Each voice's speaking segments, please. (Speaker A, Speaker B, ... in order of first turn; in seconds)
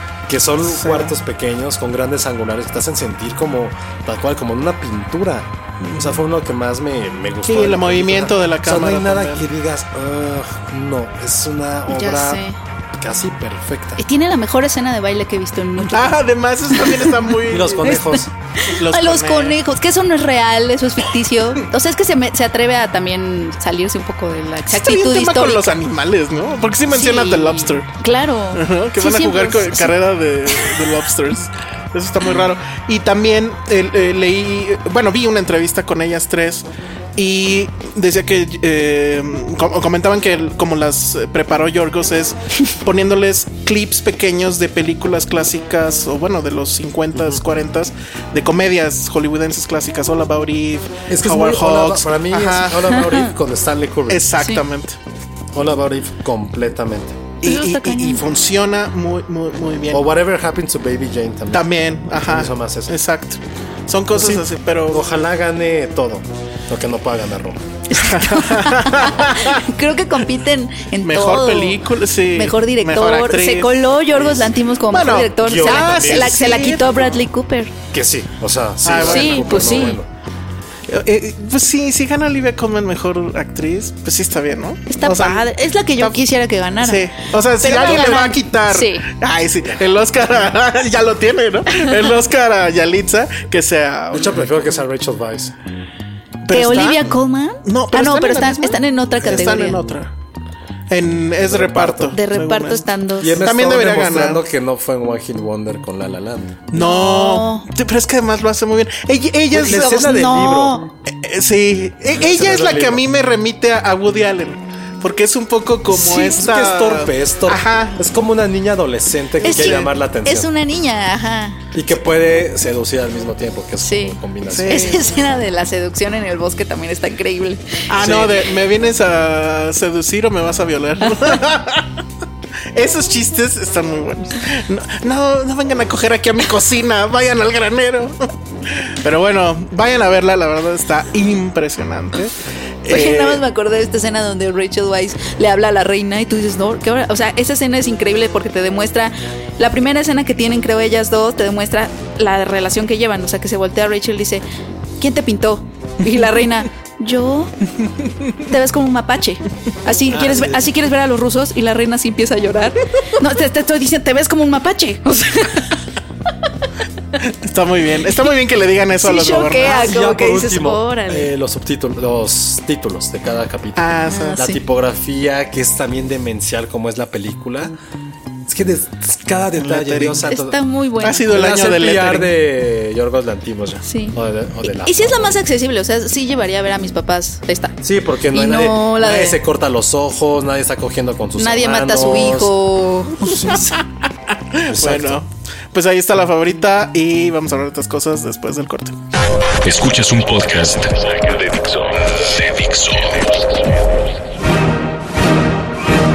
Speaker A: 0.3-12.4, 13.0-14.0, 17.5-18.3, 51.1-54.2, 55.5-57.2, 59.9-61.6, 62.2-62.9, 64.1-67.6, 75.4-76.4, 77.9-80.1, 94.1-95.5, 99.2-100.0, 101.4-102.2, 103.2-106.6, 109.5-110.8, 112.1-113.0, 115.9-120.5, 121.7-124.9, 128.0-128.3, 160.1-160.6, 169.7-177.7, 178.5-180.6, 181.2-185.4, 187.8-192.5, 193.3-193.7, 194.7-195.2
Speaker B: 0.6-1.1, 5.8-6.2, 7.4-9.4, 15.9-18.0, 18.7-19.6, 24.7-27.9, 28.5-53.2, 54.1-55.0, 57.4-60.1, 61.5-65.0, 67.9-69.6, 71.0-77.1, 78.8-79.9, 80.9-85.4, 86.8-94.7, 96.4-97.1, 97.6-100.1, 100.9-102.9, 103.4-104.4, 106.7-110.3, 111.1-118.0, 119.4-119.9, 124.5-125.2, 127.9-132.0, 132.7-143.4, 167.2-169.9, 173.8-174.4, 179.6-180.2, 181.0-182.3, 194.5-198.9
Speaker C: 11.9-12.6, 14.0-25.6, 26.9-30.9, 57.4-58.2, 67.9-77.8, 79.0-80.0, 84.9-89.1, 91.7-92.0, 96.5-99.8, 102.1-103.5, 106.7-107.7, 109.7-110.9, 119.4-121.6, 123.8-127.9, 131.0-131.3, 142.9-154.4, 155.0-157.5, 158.4-165.8, 169.0-171.3, 174.1-174.6, 180.3-181.3, 183.9-187.8, 188.3-189.4, 191.4-193.7
Speaker D: 199.6-203.8